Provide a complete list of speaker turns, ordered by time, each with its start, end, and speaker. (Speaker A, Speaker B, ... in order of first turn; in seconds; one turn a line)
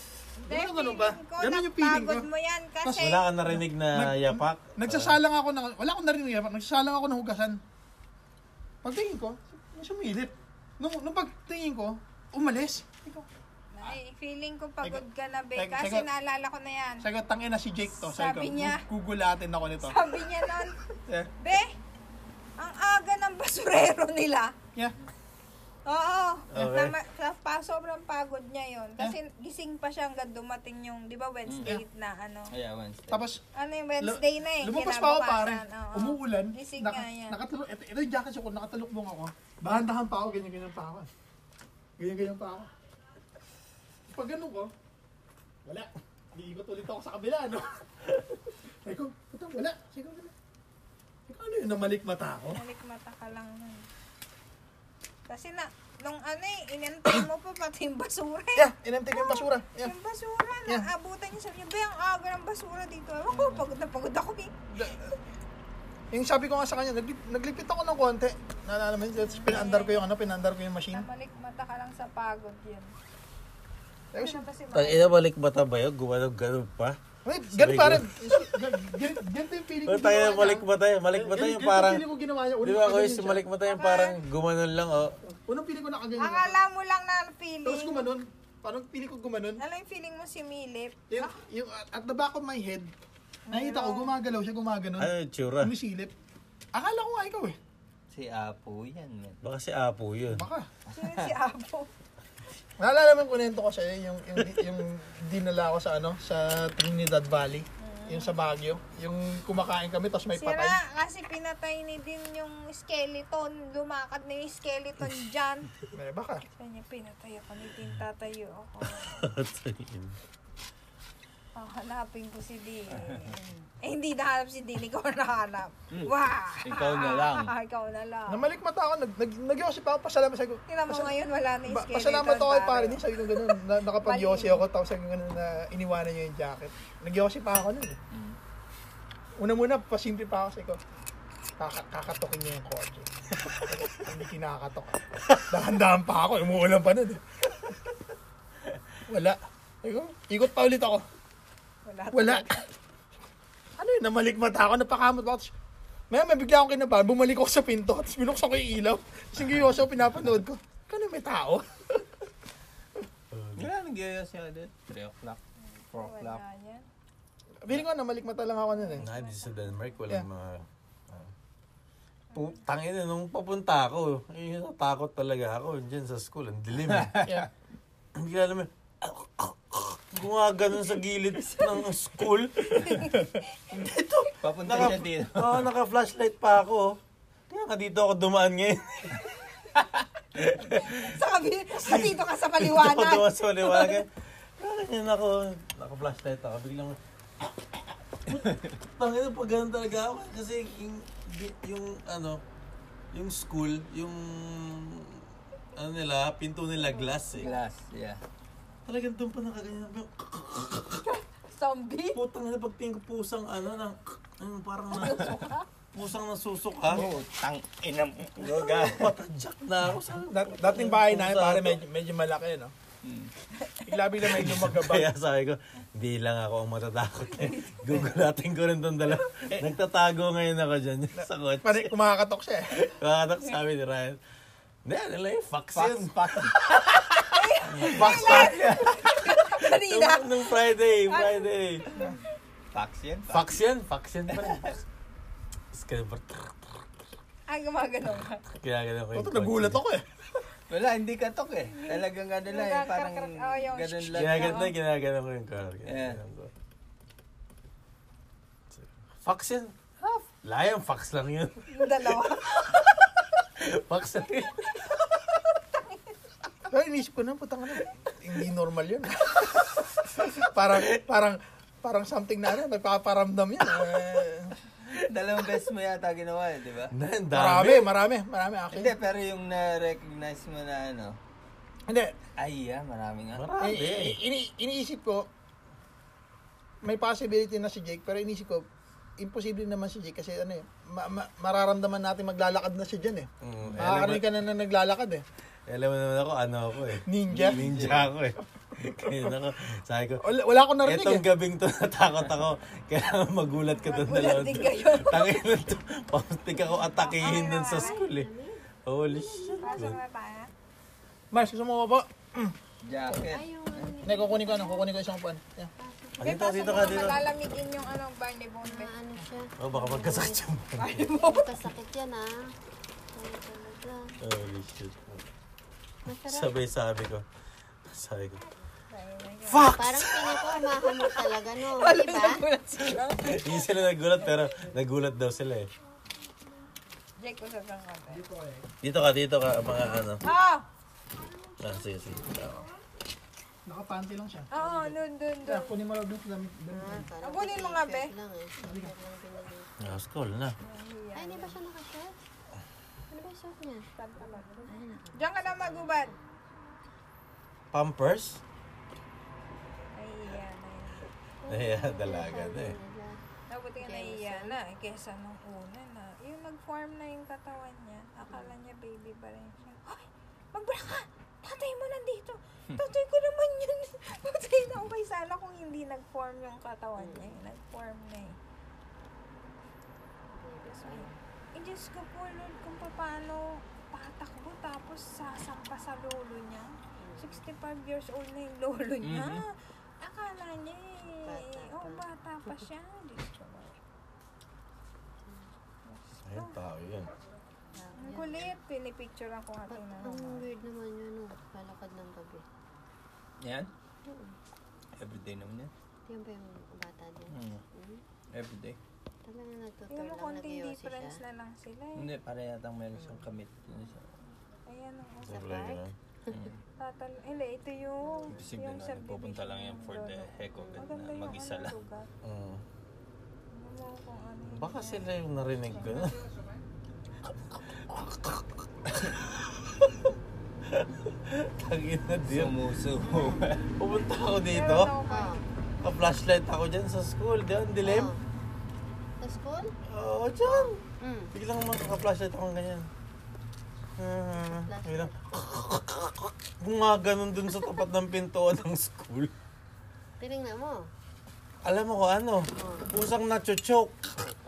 Speaker A: 0.4-2.3
Speaker B: 0.5-3.3
Speaker A: 2.8-7.6
Speaker C: 2.9-5.2
Speaker A: 8.8-13.2
Speaker B: 13.7-17.0
Speaker A: 15.6-16.1
Speaker A: 17.0-20.0
Speaker B: 17.9-18.8
Speaker B: 19.9-20.8
Speaker B: 21.4-21.8
Speaker B: 22.6-24.5
Speaker B: 25.9-32.5
Speaker C: 26.5-27.0
Speaker D: 31.5-31.8
Speaker D: 32.5-33.2
Speaker A: 33.1-33.4
Speaker B: 33.5-37.4
Speaker A: 34.0-41.1
Speaker A: 42.0-42.7
Speaker A: 44.1-44.7
Speaker A: 45.7-50.3
Speaker A: 51.3-52.6
Speaker B: 52.5-53.9
Speaker B: 55.3-64.6
Speaker A: 58.6-59.9
Speaker D: 63.3-63.6
Speaker A: 64.7-65.1
Speaker A: 66.1-71.1
Speaker B: 69.2-70.0
Speaker B: 70.9-72.9
Speaker A: 74.1-74.5
Speaker B: 74.2-75.2
Speaker C: 74.7-77.0
Speaker A: 77.2-83.4
Speaker C: 77.5-78.7
Speaker C: 79.8-82.0
Speaker C: 82.6-85.2
Speaker B: 83.6-84.2
Speaker A: 85.2-86.6
Speaker B: 86.2-88.1
Speaker A: 87.6-89.6
Speaker B: 89.6-91.3
Speaker A: 91.1-92.9
Speaker B: 93.5-94.1
Speaker A: 93.5-95.1
Speaker C: 95.0-95.7
Speaker A: 95.6-96.1
Speaker A: 96.7-97.6
Speaker D: 98.1-99.4
Speaker C: 99.4-100.5
Speaker A: 100.3-100.7
Speaker B: 101.0-101.9
Speaker D: 101.0-101.3
Speaker A: 102.8-110.8
Speaker B: 107.8-108.3
Speaker B: 110.3-115.7
Speaker A: 115.9-116.4
Speaker B: 116.6-119.2
Speaker C: 119.0-120.2
Speaker B: 121.5-128.5
Speaker D: 122.9-123.3
Speaker D: 125.9-127.5
Speaker A: 128.3-131.1
Speaker B: 130.7-134.6
Speaker A: 131.7-138.0
Speaker D: 138.1-138.4
Speaker A: 139.4-140.8
Speaker A: 141.6-143.1
Speaker A: 143.7-147.2
Speaker A: 149.1-151.0
Speaker B: 151.8-152.6
Speaker A: 152.1-152.5
Speaker A: 153.8-155.5
Speaker A: 156.1-162.1
Speaker C: 163.3-163.7
Speaker D: 163.6-165.4
Speaker B: 165.6-166.9
Speaker D: 165.9-166.4
Speaker A: 167.6-169.1
Speaker B: 168.8-169.7
Speaker C: 169.0-171.3
Speaker B: 172.3-172.6
Speaker C: 172.3-177.3
Speaker D: 177.0-177.4
Speaker C: 178.2-183.2
Speaker B: 182.8-183.3
Speaker C: 183.7-187.0
Speaker D: 184.4-185.7
Speaker C: 187.5-189.2
Speaker C: 190.4-191.0
Speaker B: 191.0-194.0
Speaker C: 191.8-202.4
Speaker D: 198.4-198.7
Speaker C: 203.1-207.5
Speaker B: 207.0-207.6
Speaker D: 207.4-208.2
Speaker C: 208.9-211.1
Speaker B: 211.0-212.2
Speaker C: 212.1-217.1
Speaker B: 214.9-215.7
Speaker D: 216.9-219.1
Speaker C: 218.4-221.8
Speaker A: 220.3-222.7
Speaker D: 223.0-223.3
Speaker B: 223.6-223.9
Speaker A: 223.9-225.1
Speaker C: 224.2-232.0
Speaker B: 227.4-228.0
Speaker A: 231.2-232.7
Speaker C: 232.8-234.2
Speaker C: 234.8-236.5
Speaker D: 235.7-239.0
Speaker B: 237.3-240.5
Speaker C: 237.7-242.0
Speaker B: 241.1-242.2
Speaker D: 242.7-243.5
Speaker C: 243.3-244.8
Speaker C: 245.7-246.9
Speaker B: 247.5-248.4
Speaker C: 248.6-249.8
Speaker A: 249.1-250.1
Speaker D: 250.7-254.7
Speaker B: 251.7-254.7
Speaker C: 254.1-256.5
Speaker D: 255.9-256.2
Speaker C: 258.7-259.8
Speaker C: 260.4-262.9
Speaker B: 261.7-262.8
Speaker C: 263.6-264.8
Speaker A: 266.7-274.6
Speaker D: 274.9-276.9
Speaker C: 276.9-277.9
Speaker A: 277.3-278.9
Speaker D: 278.7-281.2
Speaker A: 281.9-282.1
Speaker D: 282.4-283.5
Speaker C: 283.3-284.2
Speaker A: 283.6-285.3
Speaker A: 286.8-288.7
Speaker A: 289.2-293.3
Speaker C: 293.4-294.3
Speaker A: 293.8-295.2
Speaker C: 295.7-300.3
Speaker A: 297.1-297.7
Speaker D: 297.3-298.1
Speaker A: 298.8-299.3
Speaker A: 300.2-301.3
Speaker C: 300.8-308.3
Speaker B: 303.7-305.5
Speaker B: 307.0-308.1
Speaker E: 307.5-310.0
Speaker C: 308.9-310.0
Speaker B: 309.6-310.5
Speaker A: 311.3-312.6
Speaker D: 312.8-313.9
Speaker E: 313.1-314.9
Speaker A: 314.0-315.7
Speaker E: 315.8-317.2
Speaker C: 316.2-317.3
Speaker B: 316.2-318.9
Speaker E: 318.6-320.5
Speaker C: 319.6-321.1
Speaker B: 320.8-321.6
Speaker E: 321.1-322.3
Speaker E: 323.1-324.0
Speaker C: 324.2-325.3
Speaker E: 326.1-326.6
Speaker C: 326.2-327.2
Speaker C: 327.9-328.4
Speaker B: 328.9-329.8
Speaker C: 329.5-330.5
Speaker E: 329.6-332.4
Speaker B: 330.8-334.4
Speaker C: 332.8-335.7
Speaker B: 337.2-338.2
Speaker A: 338.1-338.6
Speaker C: 338.8-340.3
Speaker B: 340.2-340.7
Speaker C: 341.6-342.6
Speaker A: 343.7-344.9
Speaker B: 344.5-345.7
Speaker A: 345.4-347.1
Speaker E: 346.7-349.8
Speaker B: 347.2-348.1
Speaker A: 348.6-348.9
Speaker C: 349.8-350.5
Speaker B: 350.6-351.6
Speaker E: 351.1-352.1
Speaker E: 353.1-353.9
Speaker B: 354.0-356.1
Speaker E: 354.7-356.2
Speaker C: 357.7-358.4
Speaker B: 359.9-361.1
Speaker E: 361.4-363.2
Speaker C: 361.5-362.8
Speaker B: 363.5-378.4
Speaker E: 363.8-364.6
Speaker E: 377.0-377.4
Speaker E: 380.3-381.2
Speaker B: 380.7-393.8
Speaker E: 387.0-387.4
Speaker D: 389.0-389.4
Speaker E: 391.2-392.0
Speaker B: 395.9-396.6
Speaker C: 396.2-397.1
Speaker E: 397.8-398.5
Speaker B: 398.0-400.5
Speaker E: 399.7-402.4
Speaker D: 403.4-403.7
Speaker E: 404.1-404.4
Speaker D: 405.0-405.7
Speaker E: 406.1-408.0
Speaker D: 407.3-407.6
Speaker D: 408.3-408.8
Speaker E: 409.2-411.2
Speaker B: 409.9-412.1
Speaker D: 411.9-414.1
Speaker B: 414.7-415.9
Speaker C: 415.2-415.9
Speaker D: 416.3-416.6
Speaker B: 416.8-422.1
Speaker E: 418.0-418.3
Speaker D: 418.3-421.8
Speaker E: 420.6-420.8
Speaker C: 422.2-422.6
Speaker B: 423.5-425.2
Speaker C: 424.5-426.2
Speaker B: 425.7-426.1
Speaker C: 427.3-430.1
Speaker C: 430.7-432.6
Speaker D: 432.3-433.7
Speaker C: 433.8-434.9
Speaker B: 434.5-435.4
Speaker E: 435.1-435.4
Speaker C: 435.8-438.1
Speaker E: 437.8-438.2
Speaker E: 439.2-439.7
Speaker C: 439.9-440.8
Speaker E: 440.4-441.3
Speaker C: 441.3-442.9
Speaker C: 444.0-449.3
Speaker E: 444.4-445.1
Speaker E: 450.2-450.8
Speaker C: 451.6-454.2
Speaker E: 452.6-452.9